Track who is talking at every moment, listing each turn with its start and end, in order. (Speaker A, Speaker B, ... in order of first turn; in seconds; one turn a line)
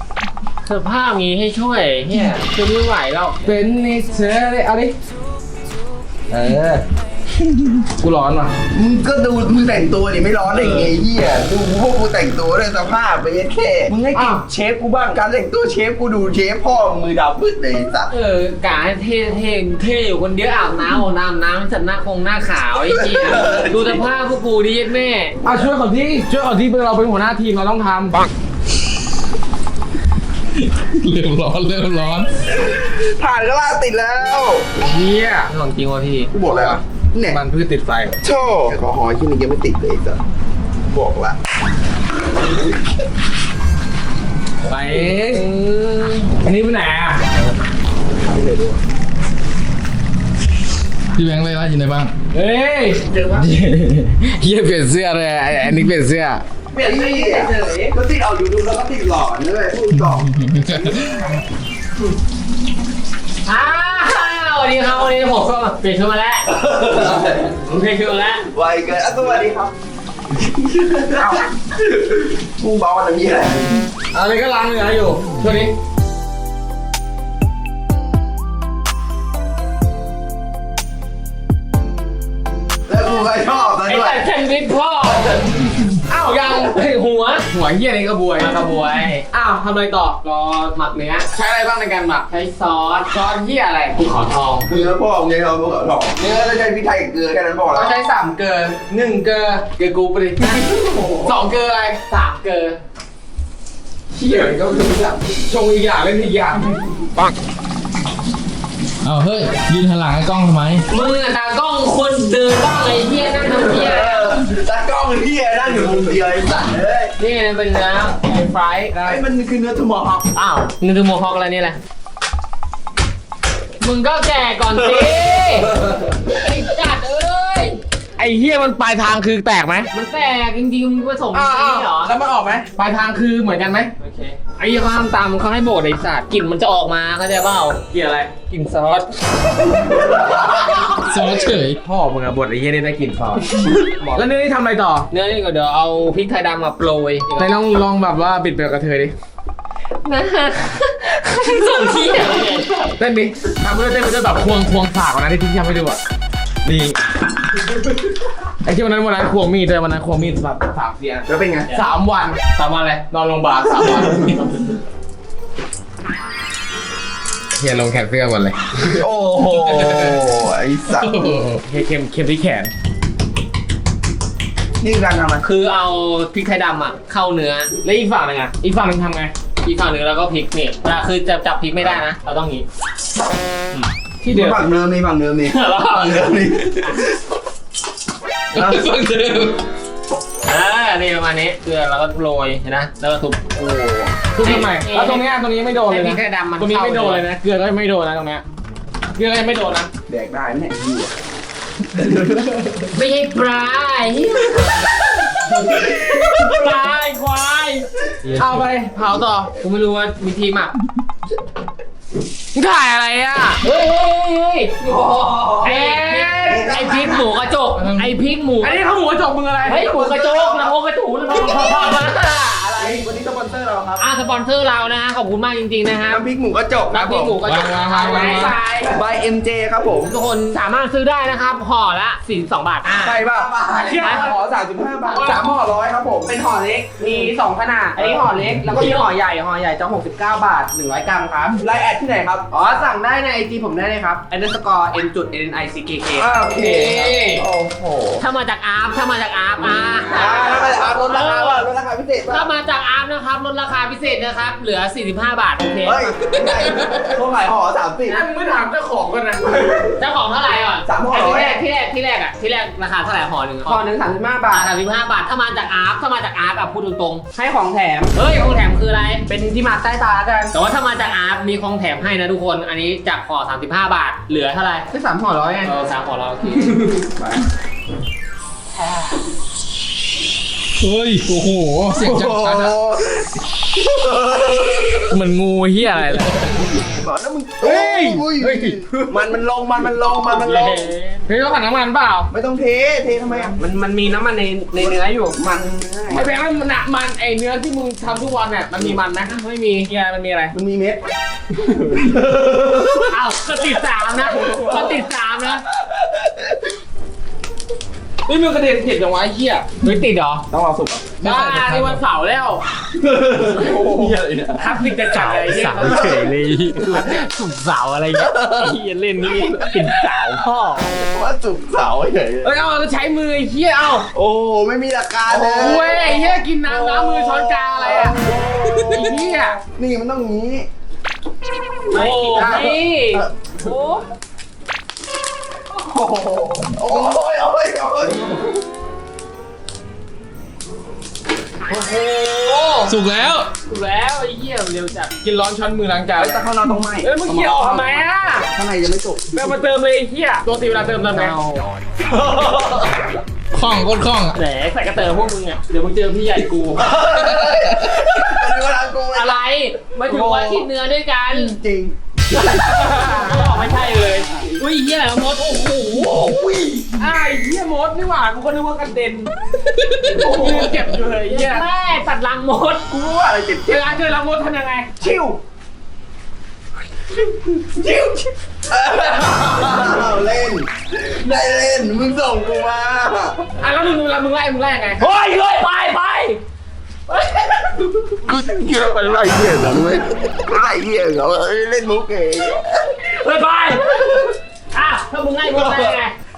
Speaker A: 0.7-3.4
Speaker B: 3.4-4.9
Speaker B: 6.3-6.8
Speaker B: 8.0-8.5
Speaker C: 8.7-18.1
Speaker A: 10.5-10.9
Speaker A: 14.1-14.4
Speaker A: 18.1-25.4
Speaker C: 22.9-24.0
Speaker B: 25.4-28.2
Speaker D: 30.8-32.3
Speaker C: 32.5-34.6
Speaker B: 34.8-35.5
Speaker A: 35.5-36.3
Speaker C: 36.3-37.4
Speaker B: 36.4-38.2
Speaker C: 38.2-40.2
Speaker C: 40.9-41.4
Speaker B: 44.6-45.5
Speaker A: 45.3-46.3
Speaker B: 46.4-47.2
Speaker C: 48.2-48.8
Speaker D: 51.1-52.1
Speaker B: 52.3-56.4
Speaker C: 53.1-53.4
Speaker C: 56.7-61.0
Speaker E: 56.7-57.9
Speaker D: 60.0-61.4
Speaker A: 63.4-66.5
Speaker C: 66.5-67.5
Speaker B: 67.7-68.2
Speaker A: 67.7-68.4
Speaker C: 68.5-69.7
Speaker C: 70.7-73.9
Speaker B: 74.1-75.7
Speaker C: 82.9-84.2
Speaker A: 83.8-85.6
Speaker B: 86.1-86.8
Speaker A: 86.4-87.5
Speaker B: 87.5-88.6
Speaker A: 88.4-89.2
Speaker B: 89.3-90.2
Speaker A: 90.2-91.3
Speaker B: 91.3-92.2
Speaker A: 92.3-94.7
Speaker C: 94.7-98.0
Speaker E: 97.7-98.8
Speaker B: 98.8-100.6
Speaker C: 100.6-101.3
Speaker B: 101.2-102.0
Speaker A: 102.1-102.8
Speaker B: 104.1-106.8
Speaker D: 109.0-110.8
Speaker A: 110.9-114.4
Speaker C: 113.6-117.1
Speaker A: 117.2-119.2
Speaker C: 119.0-120.3
Speaker A: 120.3-121.8
Speaker A: 123.8-125.8
Speaker A: 126.3-127.8
Speaker B: 128.2-129.9
Speaker A: 129.9-132.1
Speaker B: 131.3-133.9
Speaker A: 134.0-137.8
Speaker B: 137.9-138.3
Speaker A: 138.5-139.1
Speaker C: 139.8-140.4
Speaker D: 141.1-141.7
Speaker B: 141.1-145.1
Speaker A: 144.0-144.2
Speaker A: 145.1-147.5
Speaker B: 147.4-149.1
Speaker A: 150.0-152.9
Speaker B: 153.0-156.0
Speaker B: 156.6-157.0
Speaker B: 158.6-162.4
Speaker C: 161.3-161.8
Speaker A: 162.6-163.0
Speaker B: 163.1-164.5
Speaker B: 167.6-168.6
Speaker C: 168.8-171.2
Speaker D: 169.6-170.2
Speaker D: 171.2-171.6
Speaker B: 171.2-172.7
Speaker C: 174.8-175.4
Speaker A: 175.4-177.7
Speaker B: 177.8-179.3
Speaker A: 179.6-182.7
Speaker B: 183.7-184.6
Speaker C: 184.3-187.2
Speaker A: 185.5-187.0
Speaker B: 188.5-189.5
Speaker A: 190.4-193.4
Speaker C: 193.5-194.2
Speaker B: 194.3-198.4
Speaker A: 194.4-195.2
Speaker A: 195.9-197.2
Speaker B: 199.2-199.9
Speaker C: 200.1-201.1
Speaker C: 201.9-202.4
Speaker A: 202.9-204.9
Speaker A: 205.5-208.6
Speaker B: 205.7-206.7
Speaker B: 208.3-209.5
Speaker A: 209.6-210.7
Speaker B: 212.5-213.6
Speaker A: 213.6-214.8
Speaker C: 214.8-215.7
Speaker A: 215.6-218.8
Speaker B: 215.6-216.7
Speaker C: 216.4-217.3
Speaker D: 217.7-218.1
Speaker B: 218.6-219.9
Speaker A: 219.6-223.0
Speaker C: 219.8-220.7
Speaker C: 221.3-221.8
Speaker C: 222.8-224.0
Speaker A: 224.0-226.2
Speaker C: 226.1-227.4
Speaker A: 226.9-228.9
Speaker B: 227.4-228.6
Speaker D: 227.4-228.5
Speaker E: 227.9-228.5
Speaker C: 228.8-230.1
Speaker A: 230.0-233.1
Speaker C: 232.9-236.3
Speaker B: 233.8-234.3
Speaker A: 234.0-234.3
Speaker E: 235.1-235.4
Speaker E: 236.2-241.6
Speaker C: 237.0-237.3
Speaker A: 238.7-239.1
Speaker C: 241.6-242.5
Speaker E: 242.5-246.5
Speaker C: 246.2-248.2
Speaker A: 246.5-247.4
Speaker B: 246.6-246.9
Speaker A: 248.2-251.6
Speaker B: 250.0-250.4
Speaker C: 250.1-252.5
Speaker A: 252.3-256.1
Speaker C: 255.8-258.2
Speaker B: 258.1-259.8
Speaker A: 260.0-263.8
Speaker C: 260.9-261.6
Speaker E: 263.6-264.7
Speaker A: 264.5-267.2
Speaker E: 267.3-268.1
Speaker A: 268.1-269.3
Speaker E: 269.3-270.5
Speaker A: 270.5-274.9
Speaker E: 274.9-275.7
Speaker A: 275.6-277.0
Speaker C: 277.1-277.4
Speaker D: 280.8-282.7
Speaker C: 281.9-285.1
Speaker B: 285.1-286.6
Speaker C: 286.6-290.9
Speaker B: 287.6-289.3
Speaker A: 290.3-291.2
Speaker B: 291.3-292.3
Speaker C: 292.3-293.6
Speaker E: 293.6-295.4
Speaker C: 294.8-296.3
Speaker B: 296.1-299.3
Speaker A: 299.3-299.9
Speaker B: 299.9-300.5
Speaker C: 300.5-301.0
Speaker B: 301.6-302.0
Speaker C: 301.9-303.1
Speaker A: 303.1-305.6
Speaker C: 304.3-305.0
Speaker C: 305.8-306.6
Speaker B: 308.3-309.7
Speaker A: 309.8-310.4
Speaker C: 310.5-311.1
Speaker B: 311.2-312.6
Speaker A: 311.2-311.9
Speaker D: 311.2-312.0
Speaker C: 313.0-314.6
Speaker B: 313.4-316.2
Speaker A: 314.6-320.9
Speaker C: 315.8-316.3
Speaker C: 319.4-319.8
Speaker C: 320.6-322.5
Speaker B: 322.4-324.1
Speaker C: 324.1-330.7
Speaker B: 325.3-328.2
Speaker B: 328.9-329.6
Speaker A: 331.9-334.0
Speaker B: 331.9-332.8
Speaker C: 332.3-333.3
Speaker C: 335.7-338.6
Speaker A: 341.7-343.0
Speaker D: 342.9-343.5
Speaker A: 343.6-345.1
Speaker B: 345.2-346.4
Speaker C: 346.1-349.4
Speaker B: 347.0-348.5
Speaker B: 349.3-351.3
Speaker A: 351.1-351.7
Speaker D: 353.5-354.4
Speaker A: 354.3-355.9
Speaker B: 355.8-356.8
Speaker C: 356.8-359.4
Speaker D: 357.1-358.0
Speaker A: 359.1-361.6
Speaker C: 360.0-360.7
Speaker C: 361.3-362.0
Speaker A: 362.3-366.2
Speaker B: 362.7-363.6
Speaker C: 365.9-367.0
Speaker B: 367.0-369.3
Speaker D: 369.7-370.8
Speaker C: 370.1-370.7
Speaker B: 370.1-371.6
Speaker A: 371.2-372.8
Speaker C: 372.9-373.9
Speaker B: 373.7-374.9
Speaker C: 375.0-375.4
Speaker C: 377.5-383.4
Speaker B: 383.6-385.0
Speaker A: 385.0-386.4
Speaker C: 388.1-393.0
Speaker A: 393.0-396.1
Speaker C: 393.9-394.3